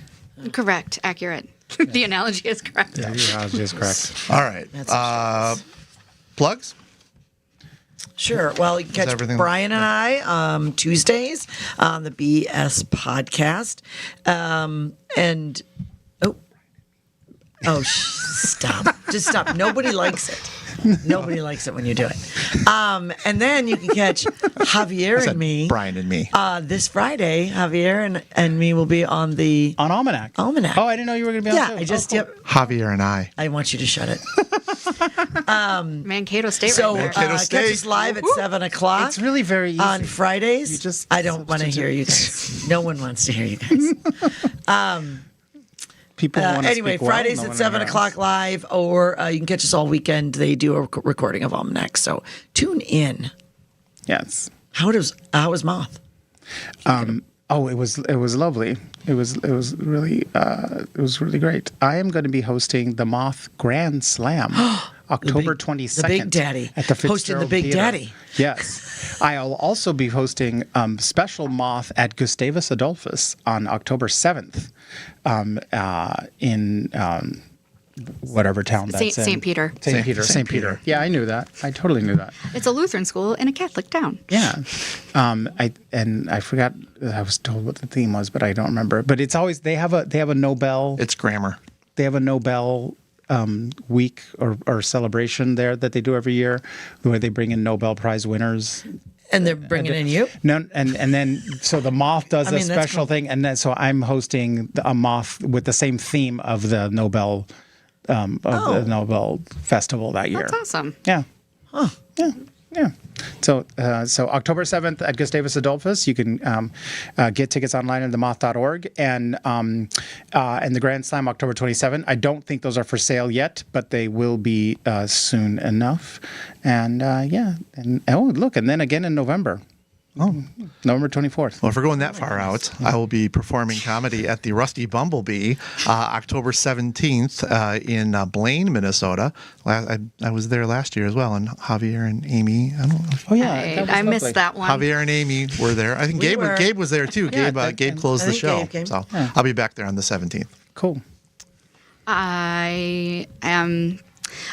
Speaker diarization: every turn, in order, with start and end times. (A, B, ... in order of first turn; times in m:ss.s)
0:00.4-0:03.5 A
0:03.0-0:04.2 B
0:04.3-0:05.6 C
0:04.7-0:05.6 D
0:06.4-0:06.7 C
0:08.2-0:15.6 D
0:08.9-0:09.8 C
0:17.6-0:25.8 D
0:25.2-0:26.3 C
0:26.3-0:29.8 D
0:29.8-0:32.3 B
0:30.4-0:30.8 D
0:31.4-0:32.4 D
0:32.4-0:33.3 C
0:33.4-0:34.4 D
0:35.3-0:36.1 D
0:36.0-0:37.4 A
0:36.6-0:39.2 D
0:36.9-0:37.9 C
0:38.0-0:38.4 A
0:39.0-0:42.6 B
0:39.8-0:45.2 D
0:46.2-0:48.1 B
0:46.3-0:53.3 D
0:54.1-0:54.5 B
0:54.7-0:56.0 D
0:56.8-1:14.7 B
1:04.6-1:08.3 D
1:15.2-1:17.4 B
1:18.0-1:22.4 B
1:18.9-1:19.8 A
1:19.9-1:20.8 C
1:22.5-1:24.2 A
1:24.3-1:31.0 B
1:31.0-1:31.6 C
1:32.0-1:47.5 B
1:39.3-1:40.4 D
1:42.4-1:43.1 D
1:48.1-1:51.2 B
1:48.5-1:48.9 D
1:50.3-1:51.0 A
1:51.7-1:52.0 D
1:52.2-2:09.6 B
2:10.2-2:11.6 B
2:11.6-2:23.3 C
2:23.3-2:24.4 B
2:23.4-2:24.9 A
2:24.6-2:30.5 C
2:26.1-2:26.7 D
2:27.3-2:28.1 B
2:28.2-2:28.9 D
2:30.8-2:31.0 B
2:32.1-2:34.0 A